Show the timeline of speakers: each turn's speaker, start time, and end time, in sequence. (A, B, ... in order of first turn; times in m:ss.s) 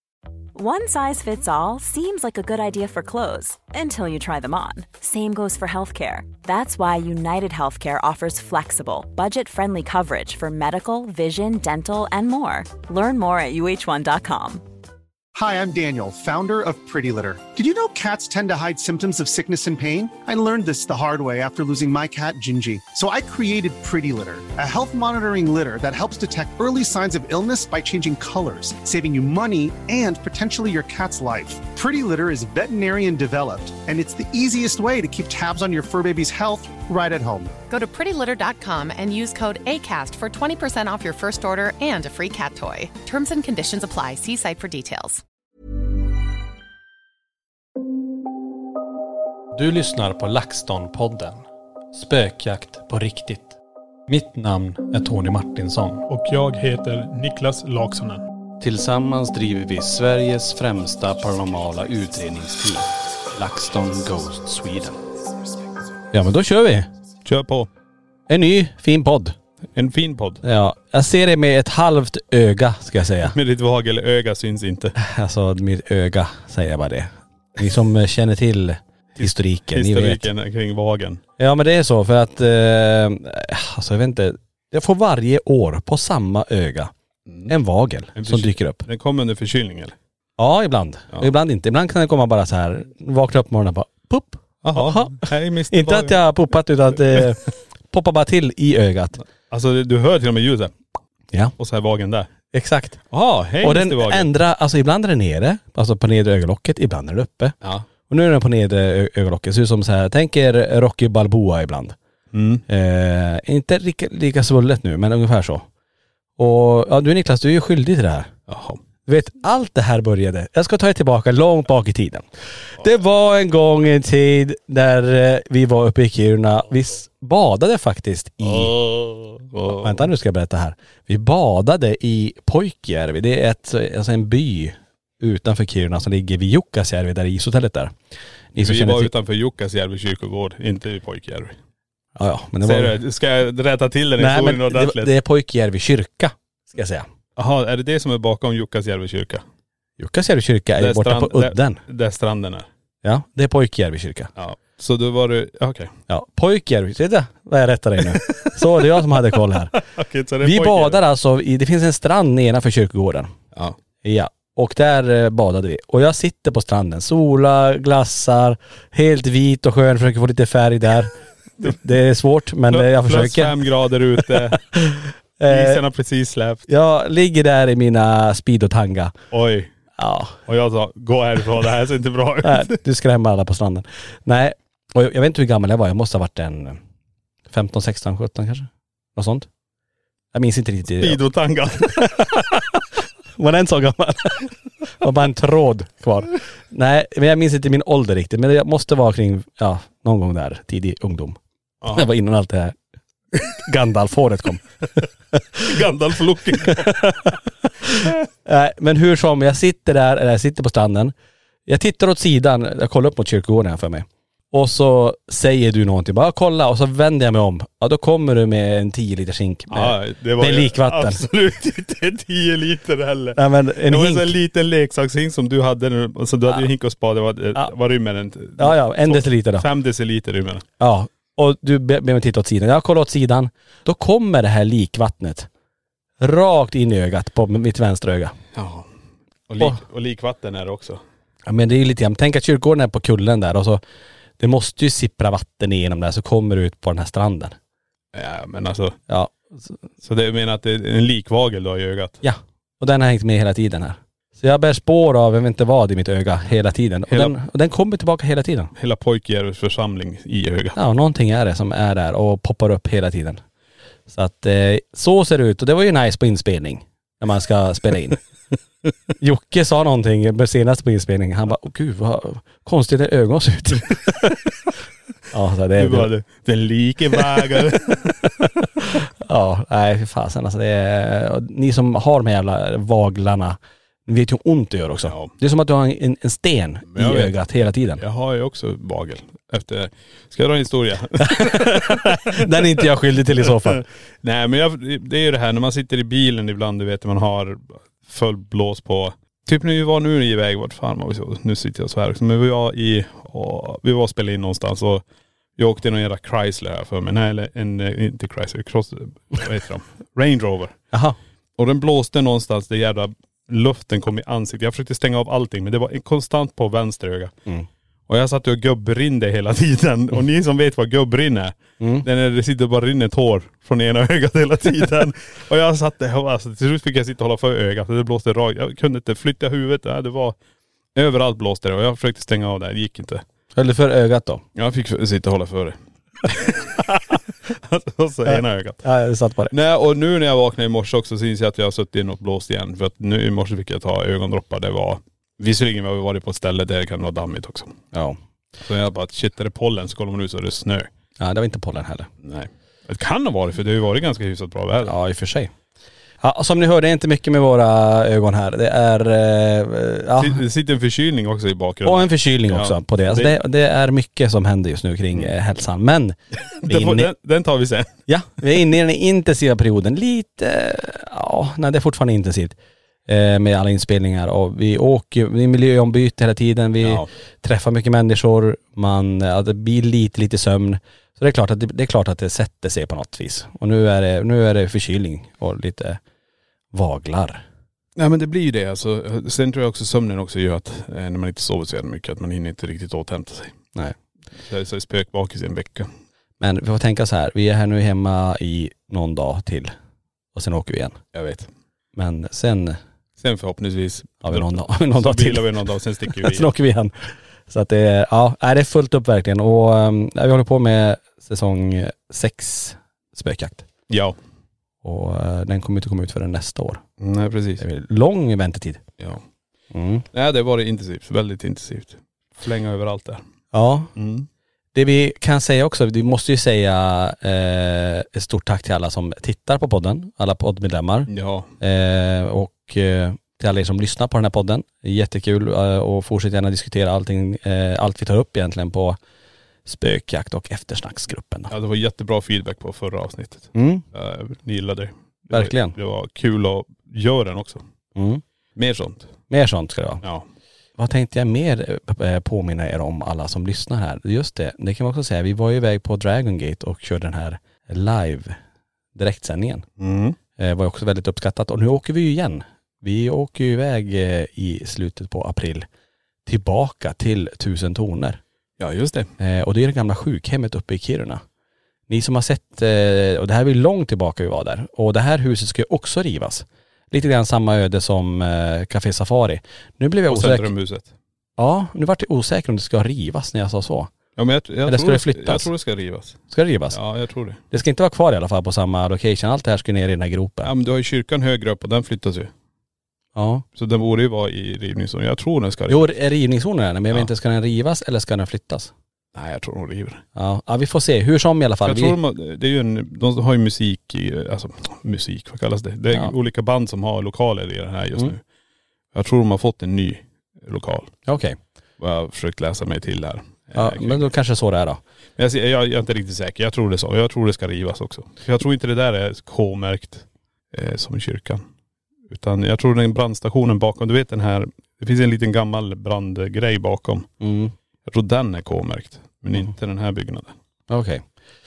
0:00.5-0:14.6 A
0:15.3-0:37.5 B
0:37.7-0:45.2 C
0:49.5-0:53.6 D
0:54.1-0:56.0 D
0:56.1-0:58.2 E
0:58.6-1:05.0 D
1:06.1-1:06.9 D
1:07.2-1:07.7 E
1:08.3-1:09.4 D
1:09.7-1:10.4 E
1:10.4-1:13.3 D
1:13.2-1:14.9 E
1:15.0-1:20.3 D
1:19.2-1:21.2 E
1:21.4-1:26.9 D
1:27.5-1:28.8 D
1:28.2-1:29.9 E
1:30.4-1:39.2 D
1:34.6-1:36.2 E
1:39.5-1:40.7 E
1:41.6-1:42.3 E
1:42.5-1:43.0 D
1:43.1-1:44.3 E
1:43.6-1:47.6 D
1:48.1-1:52.0 D
1:52.3-1:52.6 E
1:52.7-1:55.6 D
1:56.4-1:58.3 D
1:58.5-1:58.8 E
1:59.0-2:08.8 D
2:08.4-2:10.0 E
2:09.7-2:17.9 D
2:18.5-2:19.1 D
2:18.6-2:21.5 E
2:22.2-2:23.0 D
2:22.6-2:25.1 E
2:24.2-2:27.1 D
2:27.4-2:29.4 E
2:30.0-2:31.8 D
2:30.8-2:32.7 E
2:33.0-2:34.3 D
2:34.4-2:35.9 E
2:36.1-2:39.8 D
2:38.2-2:38.5 E
2:39.9-2:41.0 E
2:40.4-2:43.3 D
2:44.0-2:53.5 D
2:52.7-2:54.6 E
2:54.2-2:55.8 D
2:55.5-2:56.7 E
2:56.7-2:59.2 D
2:59.3-2:59.7 E
3:00.0-3:00.4 D
3:00.5-3:02.8 E
3:02.4-3:06.8 D
3:07.5-3:09.5 D
3:10.3-3:11.2 D
3:10.9-3:12.6 E
3:11.8-3:12.8 D
3:13.4-3:21.4 D
3:21.9-3:22.8 D
3:23.4-3:24.6 D
3:25.3-3:25.6 D
3:25.6-3:27.3 E
3:26.7-3:27.3 D
3:28.0-3:31.1 D
3:31.7-3:41.2 D
3:39.7-3:50.6 E
3:43.4-3:44.3 D
3:48.6-3:49.7 D
3:50.8-3:55.5 D
3:56.2-3:58.3 D
3:58.5-3:58.9 E
3:59.5-4:01.0 E
4:01.4-4:03.8 D
4:04.4-4:07.6 D
4:08.1-4:09.0 E
4:09.1-4:09.8 D
4:10.0-4:12.2 E
4:12.2-4:18.7 D
4:17.1-4:17.3 E
4:18.7-4:20.8 E
4:20.8-4:23.4 D
4:24.1-4:28.2 D
4:29.2-4:34.4 D
4:35.3-4:36.1 D
4:35.7-4:38.4 E
4:38.4-4:48.0 D
4:45.0-4:45.3 E
4:46.9-4:47.4 E
4:48.0-4:52.9 E
4:51.2-4:53.8 D
4:53.4-5:05.0 E
5:05.6-5:10.8 E
5:10.9-5:11.2 D
5:11.6-5:17.3 E
5:18.1-5:30.4 E
5:21.8-5:22.0 D
5:30.9-5:33.2 E
5:33.6-5:34.4 D
5:34.6-5:38.8 E
5:38.2-5:39.5 D
5:39.5-5:47.8 E
5:47.9-5:48.2 D
5:48.6-5:50.9 E
5:51.2-5:52.1 D
5:52.2-5:54.9 E
5:54.8-5:55.5 D
5:56.2-6:00.4 D
6:00.2-6:03.3 E
6:01.8-6:07.1 D
6:06.5-6:07.9 E
6:08.1-6:12.6 D
6:13.1-6:26.0 D
6:16.8-6:17.1 E
6:26.7-6:27.4 D
6:28.0-6:33.5 E
6:34.4-6:35.9 E
6:36.4-6:39.7 D
6:40.3-6:41.0 D
6:41.1-6:41.5 E
6:42.0-6:42.8 D
6:43.2-6:46.5 E
6:44.2-6:53.6 D
6:53.9-6:54.2 E
6:54.8-6:56.8 D
6:57.0-6:57.6 E
6:57.6-6:58.8 D
6:59.7-7:00.0 D
7:00.1-7:03.2 E
7:03.5-7:03.9 D
7:04.0-7:04.3 E
7:04.7-7:19.0 D
7:11.1-7:11.5 E
7:19.6-7:21.5 D
7:21.5-7:27.6 E
7:23.5-7:23.8 D
7:25.3-7:25.7 D
7:28.0-7:28.2 D
7:28.6-7:29.1 E
7:29.3-7:30.0 D
7:30.8-7:38.4 D
7:38.9-7:39.6 D
7:39.8-7:40.2 E
7:40.4-7:45.6 D
7:46.2-7:48.2 D
7:48.6-7:49.1 E
7:49.2-7:51.2 D
7:51.9-8:00.5 D
8:00.1-8:00.9 E
8:01.4-8:03.9 D
8:04.2-8:06.2 E
8:04.6-8:05.5 D
8:06.3-8:06.8 D
8:06.7-8:07.4 E
8:07.5-8:10.5 D
8:10.4-8:12.3 E
8:13.1-8:13.4 D
8:13.6-8:15.8 E
8:15.7-8:18.7 D
8:19.1-8:20.0 E
8:20.1-8:22.0 D
8:21.6-8:28.2 E
8:28.9-8:31.0 E
8:31.1-8:31.4 D
8:31.8-8:34.0 E
8:33.5-8:34.8 D
8:35.2-8:41.4 E
8:42.1-8:47.1 E
8:47.2-8:47.5 D
8:47.9-8:50.3 E
8:50.7-8:51.0 D